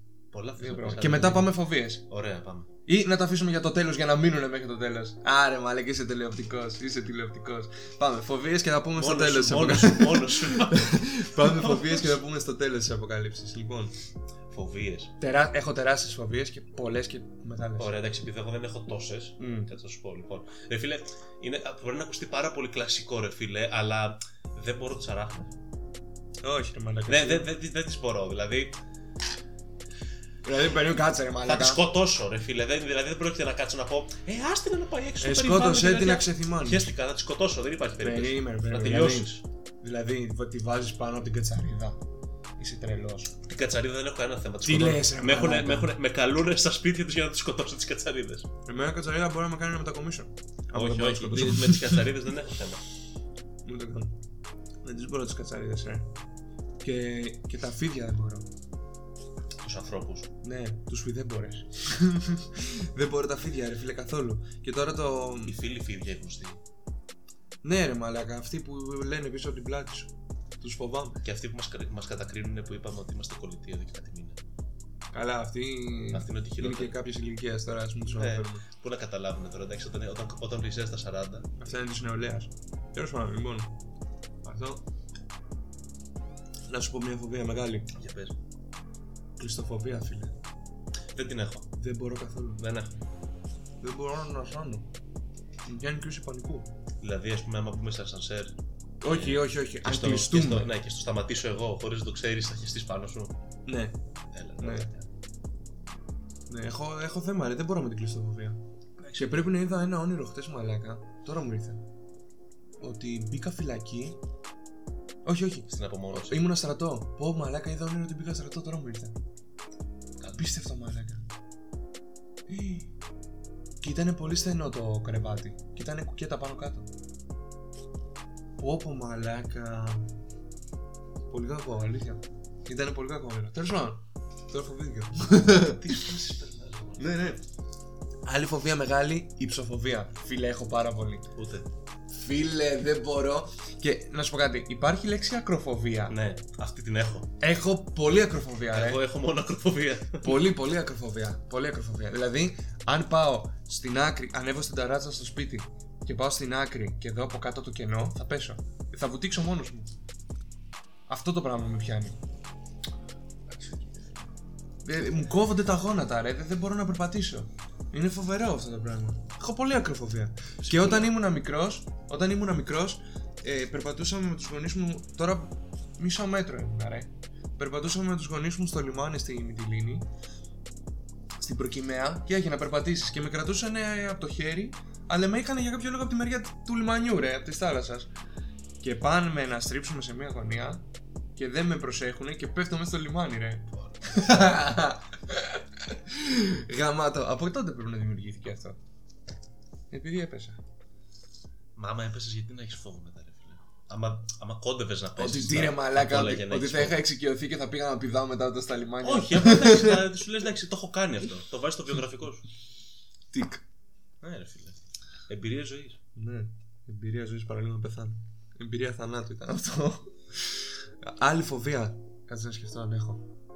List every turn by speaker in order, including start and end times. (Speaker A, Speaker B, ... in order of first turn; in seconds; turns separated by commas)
Speaker A: 0.3-1.5, Speaker B: 0.6-2.0, Speaker A: 2.1-2.7, Speaker B: 2.9-13.9, Speaker A: 8.9-12.2, Speaker A: 14.5-15.1, Speaker B: 15.2-17.9, Speaker A: 17.8-25.5, Speaker B: 19.4-19.7, Speaker B: 26.4-27.5, Speaker A: 27.1-28.7, Speaker B: 30.4-31.8, Speaker A: 31.4-39.4, Speaker B: 35.2-36.9, Speaker B: 38.0-42.0, Speaker B: 42.6-43.3, Speaker A: 43.4-48.5, Speaker B: 44.6-45.9, Speaker B: 48.6-52.1, Speaker A: 50.7-52.8, Speaker B: 53.6-54.1, Speaker B: 54.8-56.1, Speaker B: 56.8-58.5, Speaker A: 59.6-60.3, Speaker B: 60.4-65.5, Speaker A: 65.4-66.6, Speaker B: 67.6-71.2, Speaker A: 71.2-74.4, Speaker B: 75.1-78.6, Speaker A: 76.1-77.0, Speaker A: 78.1-81.7, Speaker B: 81.6-83.7, Speaker B: 84.4-84.8, Speaker B: 86.7-87.9, Speaker A: 87.9-88.3, Speaker B: 89.4-90.3, Speaker A: 91.1-91.7, Speaker B: 91.8-92.6, Speaker A: 92.6-93.0, Speaker B: 93.8-94.9, Speaker B: 95.7-96.7, Speaker A: 97.0-98.5, Speaker B: 99.0-100.7, Speaker A: 99.0-103.3, Speaker B: 103.7-103.9, Speaker A: 104.3-105.1, Speaker B: 104.6-104.9, Speaker B: 106.5-111.8, Speaker B: 112.8-114.2, Speaker B: 115.2-119.1, Speaker A: 115.7-116.5, Speaker A: 120.2-120.5, Speaker B: 120.3-121.2, Speaker B: 122.5-122.9, Speaker B: 123.8-126.9, Speaker B: 128.6-130.1, Speaker B: 131.3-136.0, Speaker A: 135.7-137.1, Speaker B: 137.0-137.4, Speaker B: 138.2-141.2, Speaker A: 141.3-141.7, Speaker B: 142.1-146.2, Speaker A: 146.1-147.3, Speaker B: 147.4-149.0, Speaker A: 148.7-150.3, Speaker B: 150.2-159.9, Speaker B: 161.1-162.2, Speaker B: 163.5-164.2, Speaker B: 164.8-180.1, Speaker A: 170.6-171.1, Speaker B: 181.4-188.1, Speaker B: 188.8-190.8, Speaker B: 191.3-198.8, Speaker A: 193.7-194.5, Speaker B: 199.9-200.6, Speaker A: 201.8-207.0, Speaker B: 205.2-210.0, Speaker A: 209.0-212.4, Speaker B: 213.3-213.6, Speaker A: 214.2-216.0, Speaker B: 216.2-223.3